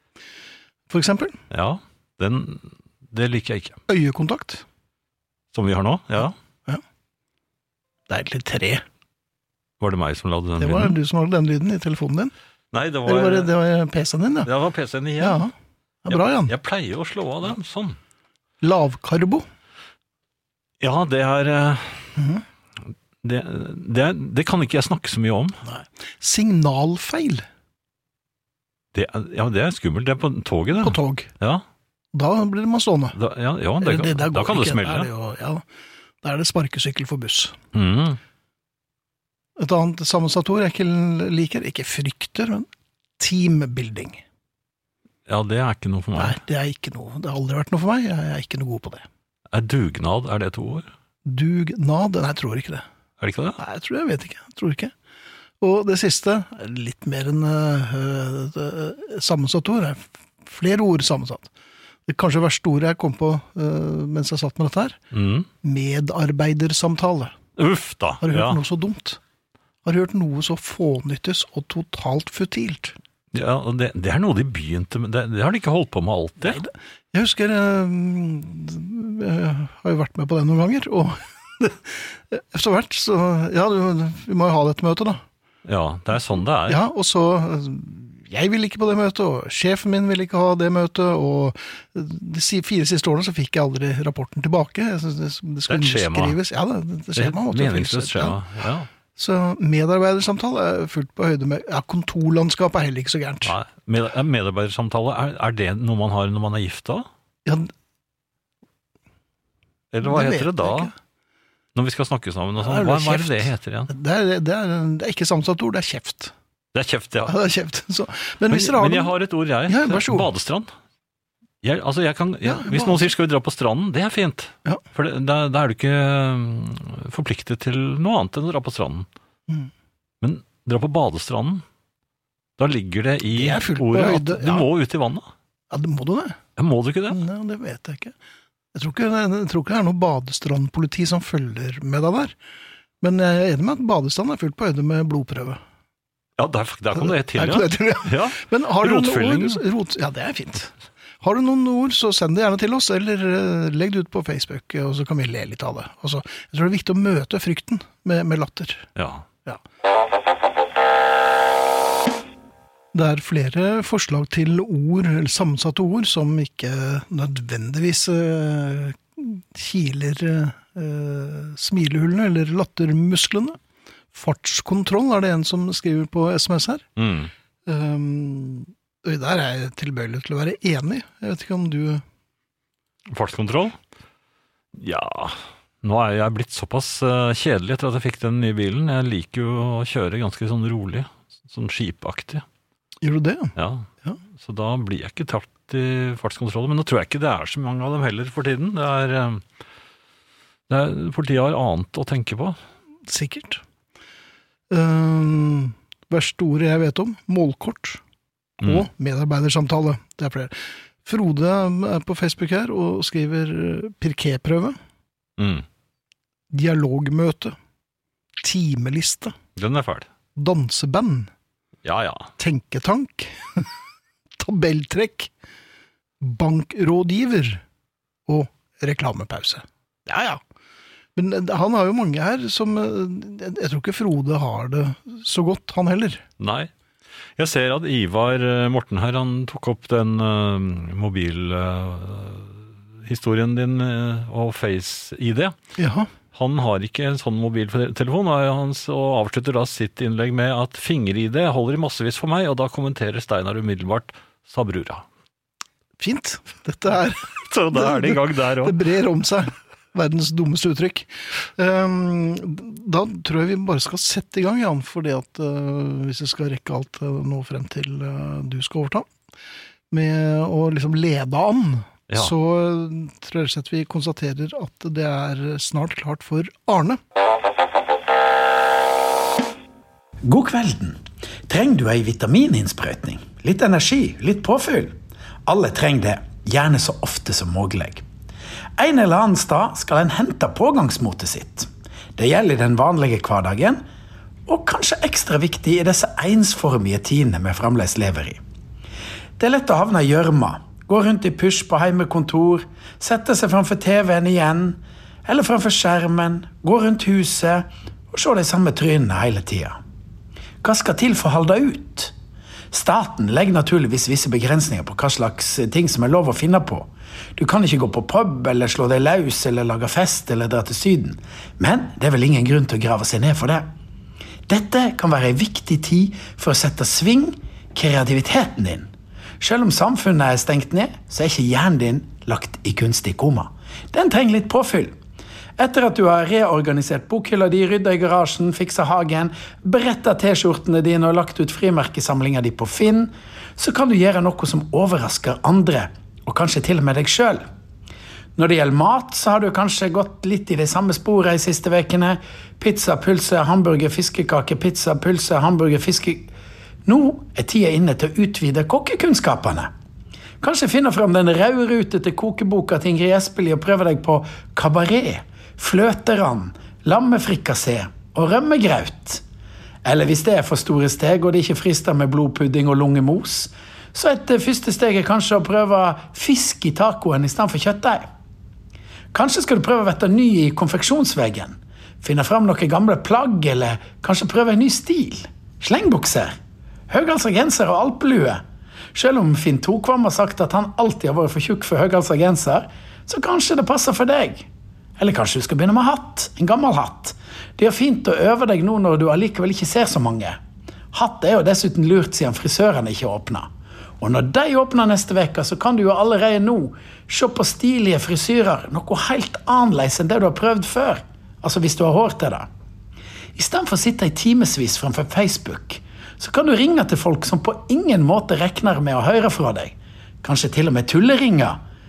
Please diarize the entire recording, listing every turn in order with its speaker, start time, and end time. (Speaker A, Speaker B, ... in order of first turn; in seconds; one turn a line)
Speaker A: 0.9-1.4
Speaker B: 1.5-3.8
Speaker A: 3.9-4.6
Speaker B: 5.5-6.3
Speaker A: 8.1-8.8
Speaker B: 9.8-10.9
Speaker A: 10.6-12.3
Speaker B: 12.7-13.5
Speaker A: 13.0-14.5
Speaker B: 14.4-15.4
Speaker A: 15.2-15.5
Speaker A: 16.0-16.5
Speaker B: 16.1-18.0
Speaker A: 18.6-19.4
Speaker B: 20.8-22.1
Speaker A: 22.1-22.4
Speaker B: 23.2-25.6
Speaker A: 25.6-27.4
Speaker B: 28.9-31.6
Speaker A: 30.8-31.3
Speaker A: 32.1-33.2
Speaker B: 33.1-35.1
Speaker A: 33.8-35.6
Speaker A: 36.2-37.5
Speaker B: 37.7-38.2
Speaker A: 39.6-42.7
Speaker A: 43.2-44.2
Speaker B: 45.3-46.4
Speaker A: 46.1-49.0
Speaker B: 49.5-50.9
Speaker A: 51.2-52.8
Speaker B: 53.2-53.6
Speaker A: 53.6-54.9
Speaker A: 55.6-61.5
Speaker A: 62.1-65.0
Speaker B: 65.1-65.5
Speaker A: 65.6-67.3
Speaker B: 67.5-68.6
Speaker A: 68.2-69.2
Speaker A: 69.8-73.0
Speaker B: 73.3-76.6
Speaker A: 76.4-85.2
Speaker B: 85.6-86.8
Speaker A: 86.7-98.4
Speaker B: 95.7-96.4
Speaker B: 97.1-98.9
Speaker A: 99.2-103.5
Speaker B: 103.4-107.1
Speaker A: 107.5-107.7
Speaker B: 109.9-110.9
Speaker A: 110.0-110.9
Speaker B: 111.7-113.9
Speaker A: 112.6-116.3
Speaker B: 116.7-117.3
Speaker A: 117.3-120.3
Speaker B: 118.5-120.7
Speaker B: 121.6-129.1
Speaker A: 122.4-123.1
Speaker B: 130.2-131.6
Speaker B: 132.6-135.3
Speaker A: 133.3-134.7
Speaker A: 135.7-136.4
Speaker B: 136.6-137.2
Speaker A: 137.1-138.1
Speaker A: 138.7-142.3
Speaker A: 143.0-145.6
Speaker B: 146.4-149.6
Speaker A: 146.9-158.9
Speaker B: 158.9-159.2
Speaker A: 162.9-173.6
Speaker A: 174.1-176.8
Speaker B: 177.0-177.3
Speaker A: 177.7-182.0
Speaker B: 183.1-183.8
Speaker B: 184.7-192.4
Speaker A: 193.0-194.2
Speaker B: 193.6-199.4
Speaker B: 200.7-202.6
Speaker A: 203.1-203.6
Speaker A: 204.7-208.0
Speaker B: 208.6-208.9
Speaker A: 208.6-214.8
Speaker B: 215.4-215.7
Speaker A: 216.5-217.5
Speaker A: 218.4-219.3
Speaker B: 219.6-220.1
Speaker A: 220.3-221.3
Speaker B: 221.8-222.3
Speaker A: 222.4-223.7
Speaker A: 224.4-225.3
Speaker A: 226.2-227.6
Speaker A: 228.3-230.4
Speaker A: 231.2-236.2
Speaker B: 236.4-236.7
Speaker B: 237.4-245.6
Speaker A: 245.8-246.1
Speaker B: 246.3-255.0
Speaker A: 256.0-269.1
Speaker B: 257.3-258.8
Speaker A: 269.9-277.0
Speaker C: 280.2-288.0
Speaker C: 288.8-293.8
Speaker C: 294.5-298.4
Speaker C: 299.4-309.8
Speaker C: 310.6-312.1
Speaker C: 312.7-323.7
Speaker C: 324.5-328.9
Speaker C: 329.4-334.9
Speaker C: 335.6-347.5
Speaker C: 348.4-356.3
Speaker C: 356.8-359.7
Speaker C: 360.4-369.2
Speaker C: 369.8-378.1
Speaker C: 379.1-386.4
Speaker C: 386.9-388.4
Speaker C: 388.9-394.5
Speaker C: 395.0-400.4
Speaker C: 400.9-412.5
Speaker C: 413.3-421.6